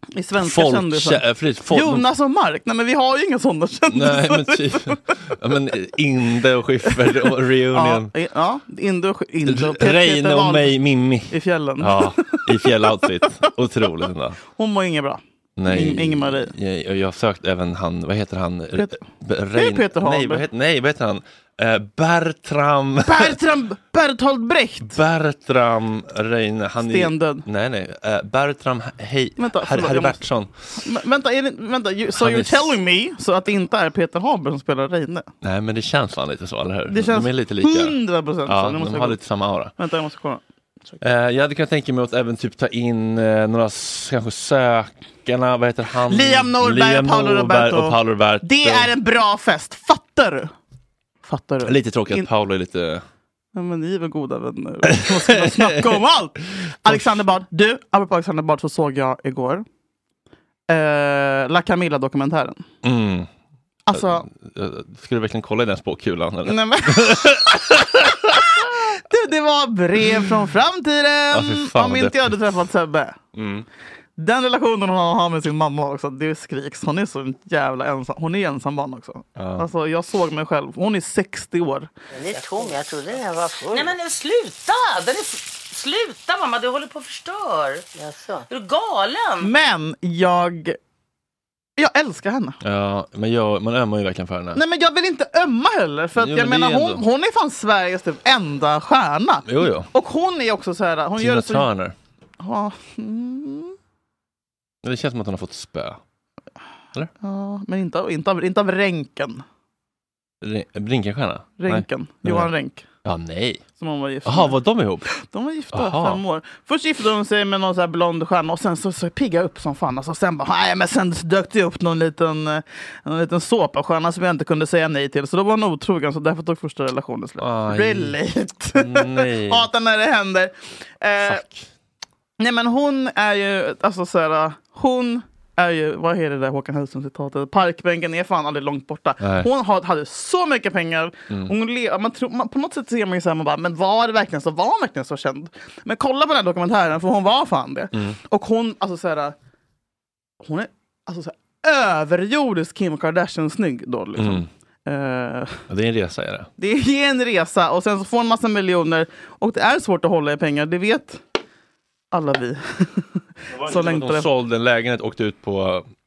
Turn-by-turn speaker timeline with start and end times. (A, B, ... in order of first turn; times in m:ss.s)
0:00.2-0:04.8 A
0:00.4-0:02.0 B
0:03.9-0:08.1 B
0:07.7-0:10.7 A
0:09.4-0:14.4 B
0:11.3-0:12.7 A
0:14.5-0:16.5 A
0:15.6-0:23.4 B
0:19.6-0:20.4 A
0:23.0-0:25.0 A
0:24.8-0:30.8 B
0:26.8-0:27.4 A
0:29.4-0:30.2 A
0:30.8-0:35.3 A
0:32.1-0:32.8 B
0:35.4-0:39.7 B
0:36.9-0:39.2 A
0:39.8-0:41.0 A
0:41.0-0:48.9 B
0:46.1-0:50.5 A
0:51.2-0:52.2 A
0:51.6-0:53.0 B
0:53.5-0:59.6 A
0:54.9-0:56.0 B
0:56.8-0:57.2 B
1:00.7-1:02.6 A
1:02.8-1:03.3 B
1:03.9-1:04.2 A
1:03.9-1:08.2 B
1:06.5-1:07.5 A
1:08.6-1:13.2 A
1:11.3-1:12.5 B
1:13.3-1:13.6 B
1:14.2-1:21.9 A
1:19.4-1:19.6 B
1:22.1-1:29.5 C
1:29.4-1:30.8 A
1:31.8-1:32.6 A
1:32.6-1:34.6 B
1:34.5-1:41.7 A
1:36.2-1:37.0 B
1:39.4-1:39.9 B
1:41.2-1:41.9 B
1:42.4-1:43.7 A
1:44.8-1:46.0 B
1:47.2-1:49.4 A
1:50.4-1:52.5 B
1:51.6-1:52.8 A
1:53.0-1:53.6 B
1:53.8-1:54.6 A
1:54.2-1:55.1 B
1:55.2-2:11.4 A
1:55.7-1:56.2 B
2:07.4-2:08.2 B
2:08.7-2:09.7 B
2:11.2-2:11.6 B
2:12.4-2:29.3 A
2:19.2-2:19.5 B
2:30.4-2:35.6 A
2:34.2-2:34.5 B
2:35.7-2:36.5 B
2:36.6-2:41.2 A
2:42.1-2:43.1 A
2:43.5-2:45.8 B
2:43.6-2:44.3 A